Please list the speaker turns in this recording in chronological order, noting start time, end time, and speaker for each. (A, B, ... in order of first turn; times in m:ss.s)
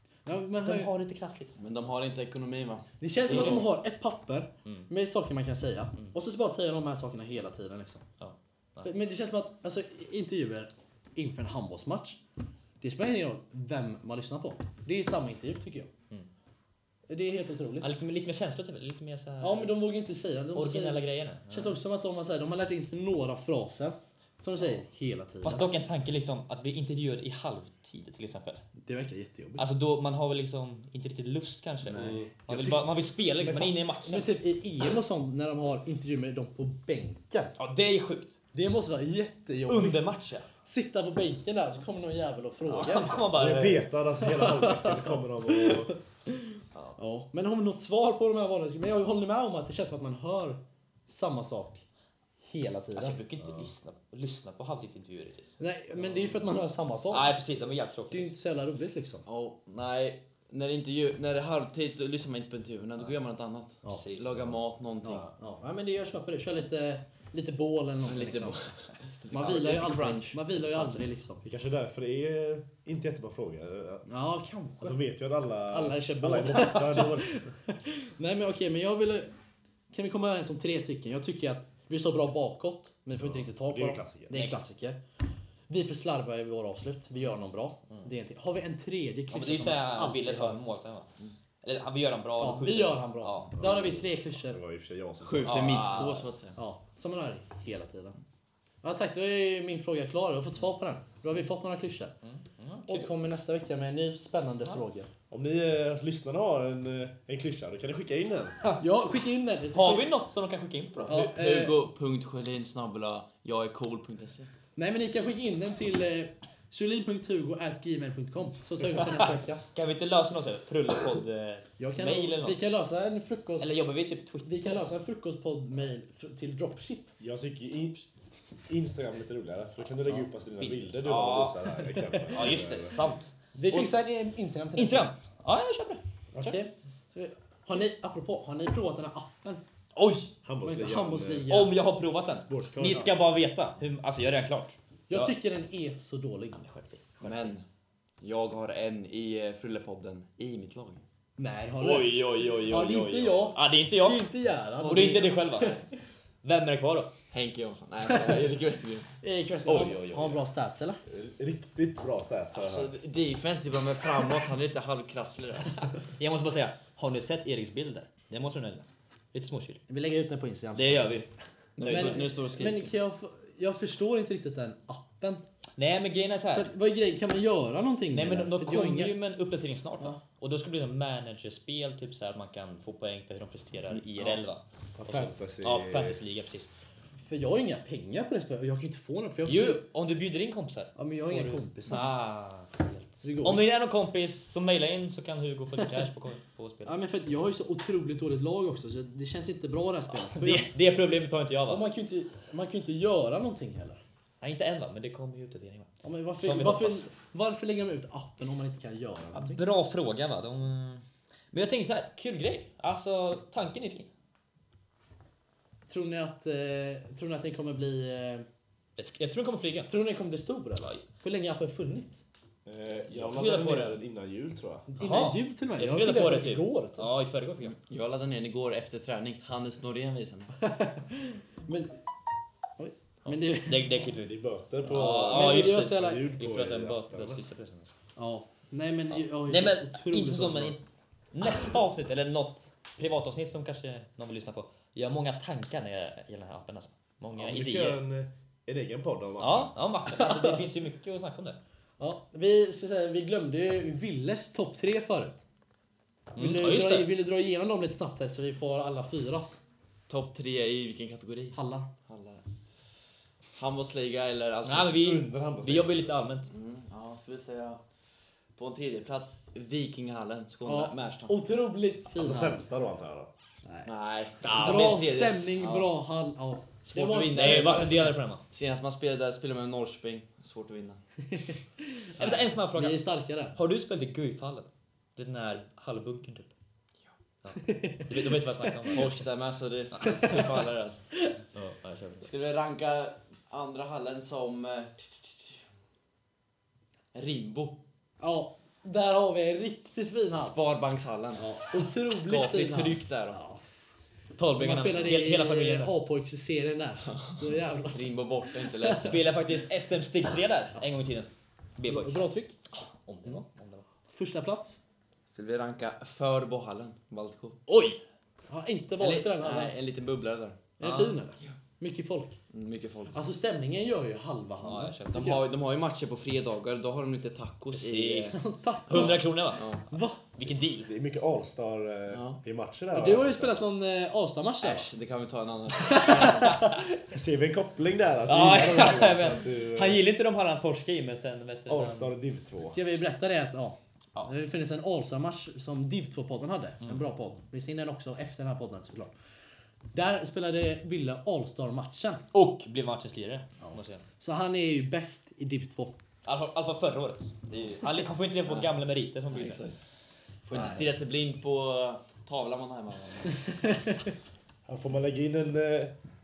0:00.2-0:00.9 A
0:00.6-0:01.6 B
0:01.6-0:03.6 C
0:03.0-0:08.0 A
0:03.3-0:03.7 B
0:08.2-0:08.9 B
0:08.8-0:12.2 A
0:12.8-0:15.9 A
0:17.1-0:17.9 A
0:17.8-0:19.7 B
0:19.4-0:25.7 A
0:20.5-0:21.8 B
0:25.4-0:28.6 B
0:28.8-0:29.6 A
0:29.6-0:34.3 B
0:31.9-0:32.9 A
0:31.9-0:32.3 D
0:33.4-0:37.5 A
0:37.6-0:38.4 B
0:38.5-0:43.3 A
0:39.7-0:40.5 B
0:42.6-0:43.9 B
0:43.3-0:45.9 D
0:44.2-0:51.8 A
0:52.4-0:53.2 A
0:53.0-0:55.6 B
0:53.4-0:53.7 D
0:55.6-0:57.3 A
0:57.1-0:58.3 B
0:58.1-0:59.2 A
0:59.2-1:05.3 C
1:03.9-1:04.5 B
1:05.0-1:08.7 A
1:08.0-1:11.1 C
1:09.3-1:11.4 A
1:11.4-1:14.0 D
1:14.1-1:15.0 A
1:14.8-1:17.4 D
1:15.7-1:19.3 A
1:19.9-1:25.0 A
1:23.2-1:24.3 D
1:24.3-1:24.6 B
1:25.7-1:30.6 A
1:29.3-1:31.1 B
1:31.6-1:33.5 B
1:32.4-1:34.6 A
1:33.6-1:35.8 D
1:35.2-1:36.6 C
1:35.4-1:36.3 B
1:36.6-1:38.2 A
1:38.8-1:42.1 A
1:42.2-1:43.1 B
1:42.9-1:45.1 A
1:45.3-1:48.6 D
1:48.8-1:50.1 A
1:49.7-1:51.1 B
1:50.9-1:54.5 C
1:51.1-1:51.8 A
1:54.8-1:59.6 A
1:59.0-2:02.6 B
2:01.8-2:03.8 A
2:03.6-2:04.5 B
2:04.4-2:07.1 A
2:07.2-2:08.1 D
2:08.7-2:13.0 D
2:10.6-2:11.8 B
2:12.3-2:13.9 B
2:13.5-2:15.1 A
2:14.8-2:16.6 B
2:16.3-2:19.6 A
2:19.9-2:20.3 B
2:20.4-2:21.5 D
2:20.6-2:21.8 A
2:21.5-2:25.4 B
2:22.3-2:23.1 D
2:25.1-2:26.6 A
2:26.5-2:27.5 B
2:27.2-2:27.6 C
2:28.2-2:31.0 C
2:31.4-2:35.8 A
2:31.8-2:34.2 B
2:34.8-2:35.8 B
2:34.8-2:35.8 C
2:36.4-2:37.1 B
2:37.3-2:39.1 C
2:38.1-2:38.4 A
2:39.2-2:41.0 A
2:39.6-2:40.4 B
2:41.0-2:43.0 D
2:42.5-2:45.9 C
2:45.8-2:49.8 B
2:49.9-2:51.2 A
2:50.7-2:51.3 B
2:51.8-2:52.9 C
2:51.8-2:52.3 B
2:51.8-2:55.4 A
2:55.8-2:56.7 B
2:56.5-2:59.1 A
2:58.1-3:06.7 B
3:05.0-3:06.2 D
3:07.2-3:09.8 A
3:09.4-3:17.0 B
3:11.0-3:12.1 A
3:13.2-3:13.7 A
3:16.8-3:20.7 A
3:20.1-3:21.8 B
3:21.7-3:24.0 A
3:24.4-3:27.1 B
3:26.0-3:29.6 A
3:29.3-3:34.1 B
3:35.9-3:38.4 A
3:39.0-3:39.9 B
3:39.9-3:42.2 A
3:40.8-3:41.0 B
3:42.6-3:44.9 D
3:43.1-3:44.0 B
3:44.9-3:47.1 A
3:45.0-3:47.8 B
3:47.8-3:50.5 C
3:50.6-3:52.0 A
3:52.8-3:54.0 A
3:53.2-3:57.9 B
3:54.2-3:57.4 D
3:55.2-3:56.2 A
3:58.2-4:00.8 A
3:59.1-4:00.8 B
4:01.3-4:08.0 B
4:07.3-4:09.7 D
4:09.4-4:11.6 B
4:10.1-4:10.6 A
4:12.0-4:15.4 A
4:16.4-4:17.1 B
4:16.4-4:19.6 A
4:20.1-4:22.4 C
4:21.5-4:21.9 A
4:23.6-4:25.0 C
4:24.6-4:26.5 B
4:24.7-4:26.1 D
4:26.5-4:27.8 C
4:28.6-4:31.4 C
4:30.6-4:32.6 A
4:32.2-4:33.3 D
4:33.6-4:33.9 A
4:33.8-4:35.9 C
4:34.4-4:35.1 B
4:34.5-4:38.1 A
4:36.8-4:41.0 C
4:37.3-4:38.4 B
4:41.3-4:43.6 A
4:42.2-4:43.0 B
4:43.5-4:46.5 B
4:47.4-4:49.2 B
4:47.6-4:48.9 A
4:48.9-4:51.0 C
4:49.9-4:50.4 B
4:51.5-4:52.3 B
4:52.2-4:55.1 C
4:57.1-4:57.8 C
4:58.2-5:00.6 A
5:00.4-5:03.4 C
5:01.4-5:03.6 A
5:04.4-5:05.9 B
5:04.6-5:09.2 A
5:07.1-5:09.3 C
5:09.0-5:13.8 B
5:10.8-5:11.1 A
5:11.8-5:12.5 A
5:14.1-5:14.8 A
5:15.3-5:17.6 C
5:17.7-5:18.0 B
5:18.5-5:19.8 A
5:19.0-5:20.6 C
5:20.8-5:22.4 A
5:20.8-5:21.2 B
5:22.5-5:23.2 C
5:23.1-5:25.4 A
5:24.6-5:25.2 B
5:25.1-5:29.8 C
5:27.7-5:29.8 B
5:28.3-5:29.3 A
5:29.9-5:30.2 A
5:30.3-5:30.9 B
5:30.8-5:33.6 D
5:32.1-5:32.4 C
5:32.9-5:34.9 A
5:34.6-5:36.7 C
5:35.8-5:36.8 A
5:37.1-5:40.0 D
5:38.3-5:42.1 B
5:41.7-5:42.8 D
5:42.7-5:49.1 A
5:49.9-5:52.2 A
5:52.3-5:54.0 B
5:53.6-5:55.9 A
5:56.2-5:59.6 B
5:59.3-5:59.8 C
6:00.4-6:03.4 C
6:00.5-6:00.9 A
6:03.4-6:04.0 A
6:04.6-6:05.9 D